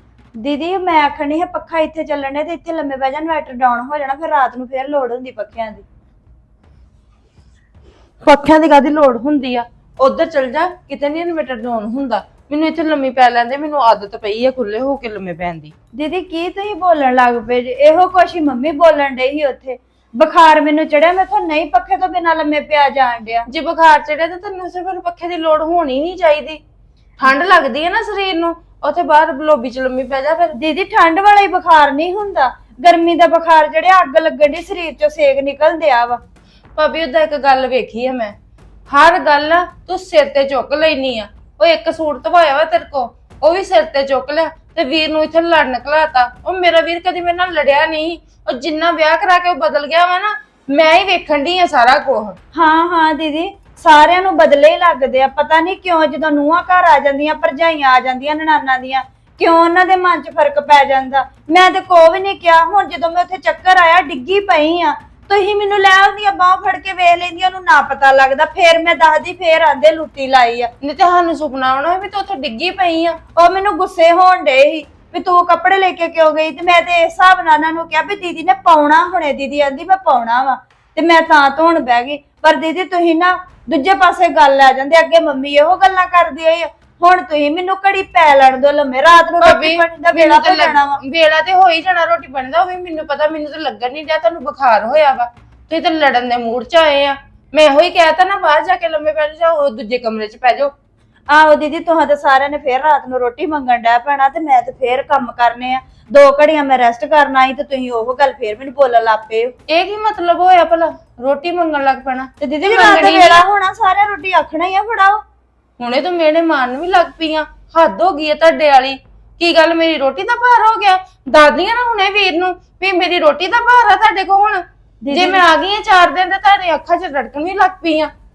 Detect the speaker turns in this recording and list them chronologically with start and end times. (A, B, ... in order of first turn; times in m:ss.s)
0:00.4-0:05.8 A
0:08.2-0:15.7 B
0:16.0-0:23.4 A
0:23.5-0:26.6 B
0:27.2-0:30.6 B
0:30.6-0:36.2 A
0:36.8-0:38.3 B
0:38.9-0:52.4 B
0:52.5-1:10.7 A
1:10.8-1:13.2 B
1:13.4-1:31.0 A
1:29.2-1:40.7 B
1:41.3-1:49.6 A
1:49.7-1:53.4 B
1:52.4-1:55.2 A
1:55.8-2:08.1 B
2:05.0-2:05.4 A